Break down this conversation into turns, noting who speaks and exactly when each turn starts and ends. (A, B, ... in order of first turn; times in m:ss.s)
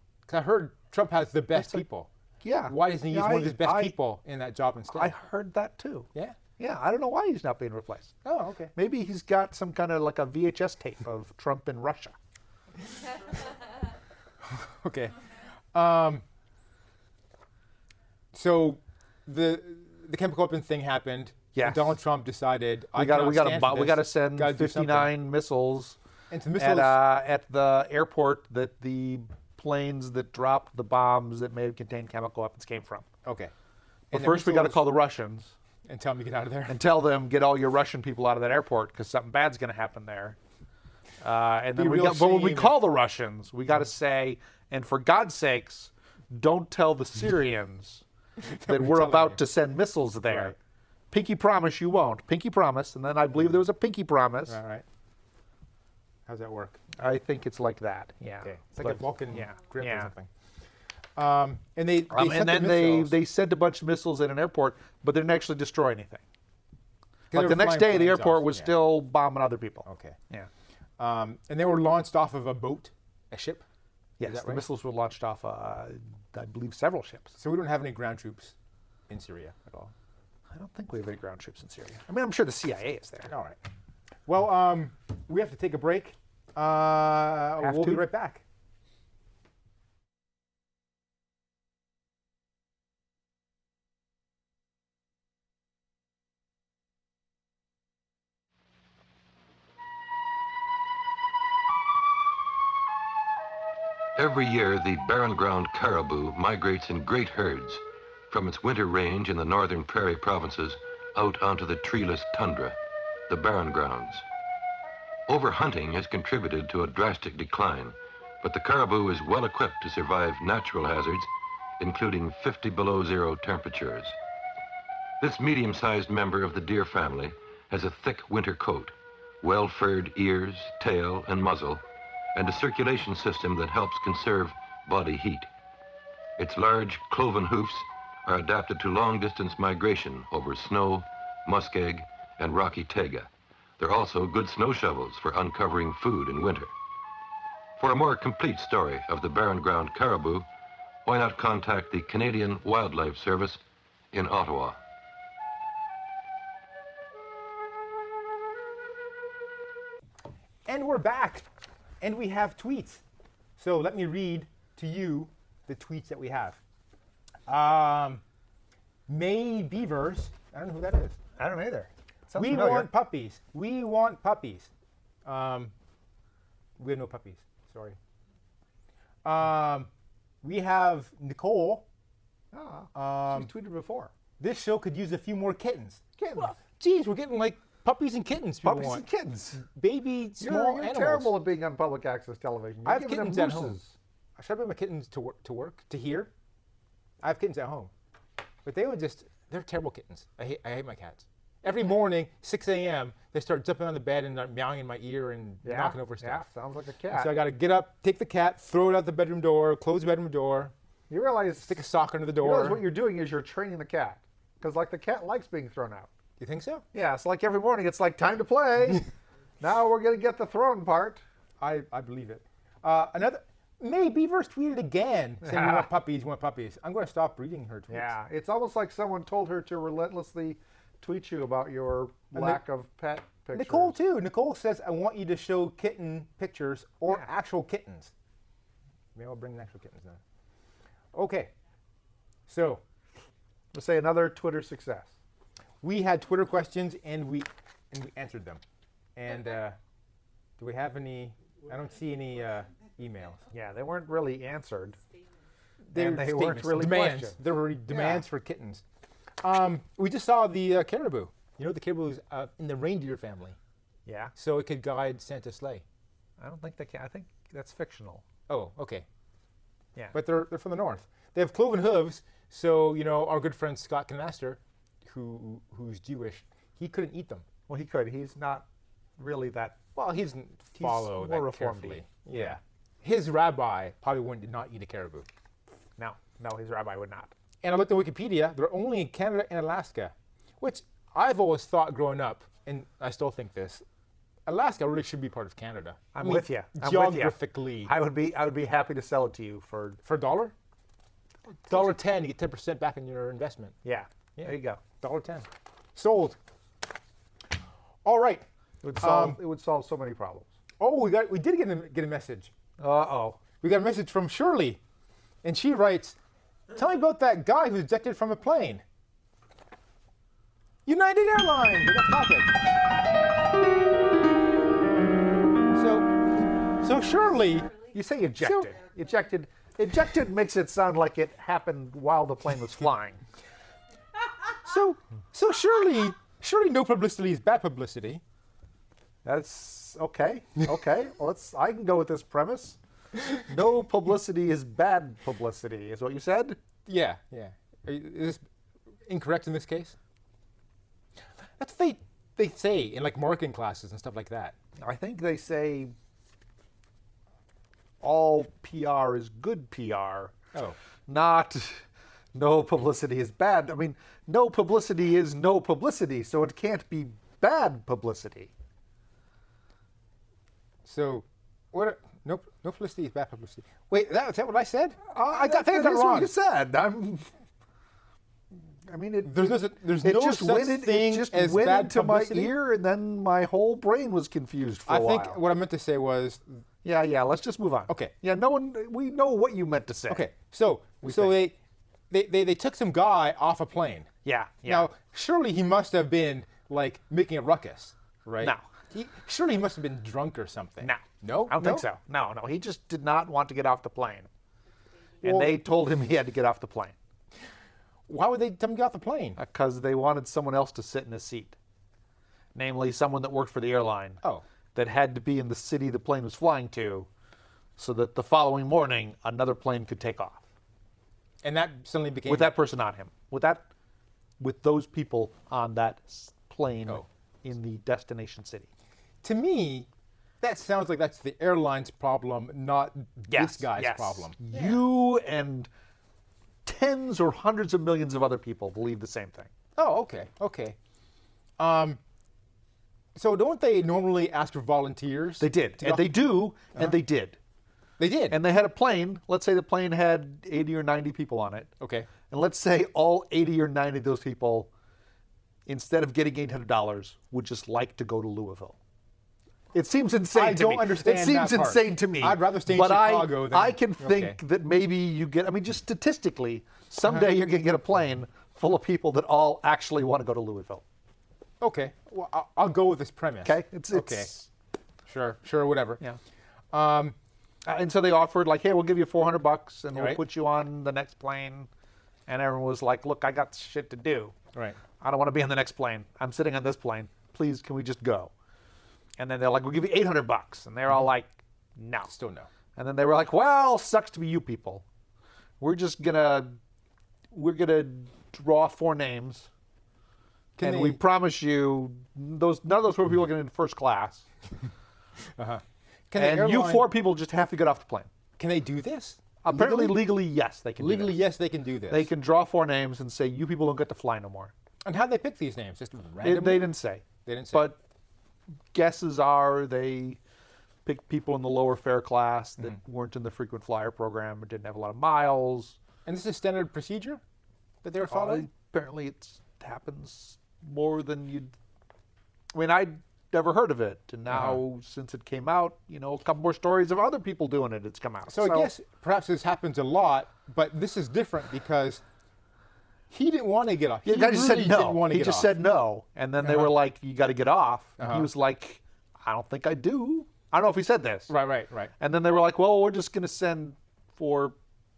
0:00.3-0:02.1 A
0:01.5-0:01.8 B
0:02.4-0:04.0 B
0:02.7-0:05.2 A
0:04.9-0:08.1 B
0:08.2-0:08.7 A
0:08.8-0:12.2 B
0:14.5-0:16.2 A
0:18.3-0:25.1 A
0:21.5-0:22.0 B
0:23.0-0:26.0 B
0:26.3-0:27.0 A
0:26.6-0:33.1 B
0:33.2-0:33.5 A
0:34.1-0:35.5 B
0:34.1-0:34.8 A
0:35.9-0:36.8 A
0:36.7-0:40.4 B
0:41.2-0:48.0 B
0:41.8-0:42.8 A
0:48.4-0:49.4 A
0:48.7-0:50.6 B
0:50.3-0:50.6 A
0:51.1-0:54.6 B
0:54.5-0:54.8 A
0:56.3-0:56.8 A
0:57.0-1:00.1 B
0:58.4-1:00.3 A
1:01.2-1:03.2 A
1:02.1-1:06.2 B
1:07.3-1:08.8 A
1:07.3-1:10.5 B
1:09.9-1:10.2 A
1:11.0-1:13.6 A
1:14.2-1:17.3 B
1:14.2-1:14.6 A
1:17.4-1:18.5 A
1:19.1-1:19.9 A
1:20.5-1:23.3 B
1:23.3-1:23.6 A
1:24.3-1:28.4 A
1:27.6-1:28.0 B
1:44.2-1:52.8 C
1:53.3-1:54.2 C
1:55.3-2:01.3 C
2:01.8-2:04.2 C
2:05.2-2:11.8 C
2:12.4-2:15.5 C
2:16.4-2:26.7 C
2:27.8-2:30.5 C
2:31.0-2:33.6 C
2:34.1-2:34.8 C
2:40.7-2:41.4 A
2:42.0-2:43.0 A
2:43.6-2:46.6 A
2:47.5-2:48.2 A
2:49.1-2:51.2 A
2:51.4-2:52.9 B
2:52.4-2:54.7 A
2:55.3-2:55.7 A
2:56.8-2:58.0 A
2:59.2-2:59.9 A
3:00.4-3:01.8 A
3:02.5-3:04.1 B
3:02.9-3:03.5 A
3:04.4-3:09.0 A
3:06.2-3:06.6 B
3:08.6-3:09.6 B
3:09.6-3:11.3 A
3:10.4-3:13.9 B
3:12.8-3:13.8 A
3:14.4-3:16.3 A
3:17.2-3:17.9 A
3:18.6-3:26.5 A
3:25.6-3:27.3 B
3:27.1-3:30.7 A
3:31.1-3:31.8 B
3:31.6-3:32.8 A
3:32.4-3:36.1 B
3:36.4-3:36.8 A
3:36.9-3:39.1 B
3:39.6-3:41.2 B
3:41.6-3:48.1 A
3:45.4-3:45.9 B
3:47.9-3:54.0 B
3:52.4-3:52.6 A
3:53.5-3:58.1 A
3:59.2-4:00.2 A
4:01.1-4:01.5 A
4:02.5-4:02.8 A
4:03.7-4:05.1 B
4:05.8-4:08.6 A
4:09.2-4:09.8 A
4:10.6-4:13.5 A
4:13.5-4:15.0 B
4:15.9-4:18.8 A
4:15.9-4:18.2 B
4:19.4-4:23.6 A
4:24.1-4:24.3 B
4:24.4-4:25.8 A
4:26.4-4:28.2 B
4:28.5-4:29.0 A
4:30.1-4:37.4 A
4:37.7-4:38.7 B
4:39.2-4:39.8 B
4:40.0-4:45.3 A
4:40.8-4:42.6 B
4:46.0-4:47.3 B
4:47.6-4:53.8 A
4:54.5-4:57.9 A
4:56.1-5:00.0 B
5:00.0-5:00.5 A
5:01.7-5:03.8 A
5:03.8-5:04.8 B
5:04.4-5:06.4 A
5:08.0-5:08.4 A
5:08.8-5:10.5 B
5:09.0-5:09.4 A
5:10.8-5:12.5 A
5:12.8-5:13.4 B
5:13.6-5:14.8 A
5:15.4-5:16.2 A
5:16.7-5:18.8 A
5:20.9-5:22.6 A
5:25.7-5:26.2 A
5:26.8-5:27.8 A
5:27.8-5:33.2 B
5:28.4-5:28.7 A
5:34.5-5:38.2 A
5:39.2-5:42.8 B
5:43.4-5:46.6 B
5:46.8-5:48.4 A
5:49.1-5:50.0 A
5:51.6-5:54.6 A
5:54.8-5:55.9 B
5:58.0-6:00.3 B
6:01.1-6:08.5 B
6:10.8-6:16.3 A
6:15.1-6:17.3 B
6:18.9-6:25.4 B
6:19.2-6:22.5 A
6:24.9-6:26.6 A
6:26.8-6:30.3 B
6:30.1-6:31.6 A
6:31.0-6:31.4 B
6:32.1-6:34.1 A
6:34.2-6:34.9 B
6:34.7-6:41.9 A
6:40.8-6:44.3 B
6:45.2-6:47.0 B
6:45.2-6:45.5 A
6:48.1-6:49.4 A
6:49.4-6:51.6 B
6:52.6-6:54.2 B
6:54.8-6:57.1 B
6:57.8-7:00.4 B
7:01.4-7:02.5 A
7:02.3-7:03.7 B
7:04.4-7:08.7 B
7:09.2-7:09.9 A
7:10.4-7:14.8 A
7:13.3-7:15.7 B
7:16.6-7:19.5 B
7:19.8-7:20.8 A
7:21.6-7:22.0 A
7:23.2-7:26.1 A
7:25.4-7:27.4 B
7:28.0-7:28.4 A
7:28.3-7:31.7 B
7:31.8-7:32.1 A
7:32.3-7:34.7 B
7:35.7-7:38.8 B
7:39.7-7:50.8 B
7:40.3-7:44.4 A
7:51.6-7:54.3 A
7:53.4-7:54.5 B
7:55.1-7:56.0 A
7:56.7-7:57.2 A
7:57.6-8:01.7 B
7:59.9-8:00.2 A
8:02.3-8:04.4 B
8:05.0-8:08.3 B
8:09.2-8:12.1 B
8:12.1-8:12.5 A
8:12.8-8:14.8 B
8:15.6-8:16.6 B
8:17.3-8:19.5 B
8:20.6-8:21.0 A
8:20.6-8:24.3 B
8:25.4-8:26.9 A
8:26.2-8:28.1 B
8:28.4-8:30.0 A
8:29.4-8:31.2 B
8:30.8-8:32.1 A
8:31.9-8:34.5 B
8:34.8-8:36.7 A
8:36.2-8:37.8 B
8:37.2-8:37.7 A
8:38.7-8:40.2 B
8:40.8-8:45.8 B
8:46.1-8:47.2 A
8:47.8-8:48.5 A
8:48.0-8:51.5 B
8:52.5-8:58.7 B
8:54.3-8:54.6 A
8:58.3-9:02.0 A
9:03.1-9:05.5 A
9:04.0-9:11.4 B
9:06.4-9:06.7 A
9:08.0-9:08.3 A
9:11.3-9:11.9 A
9:12.0-9:14.6 B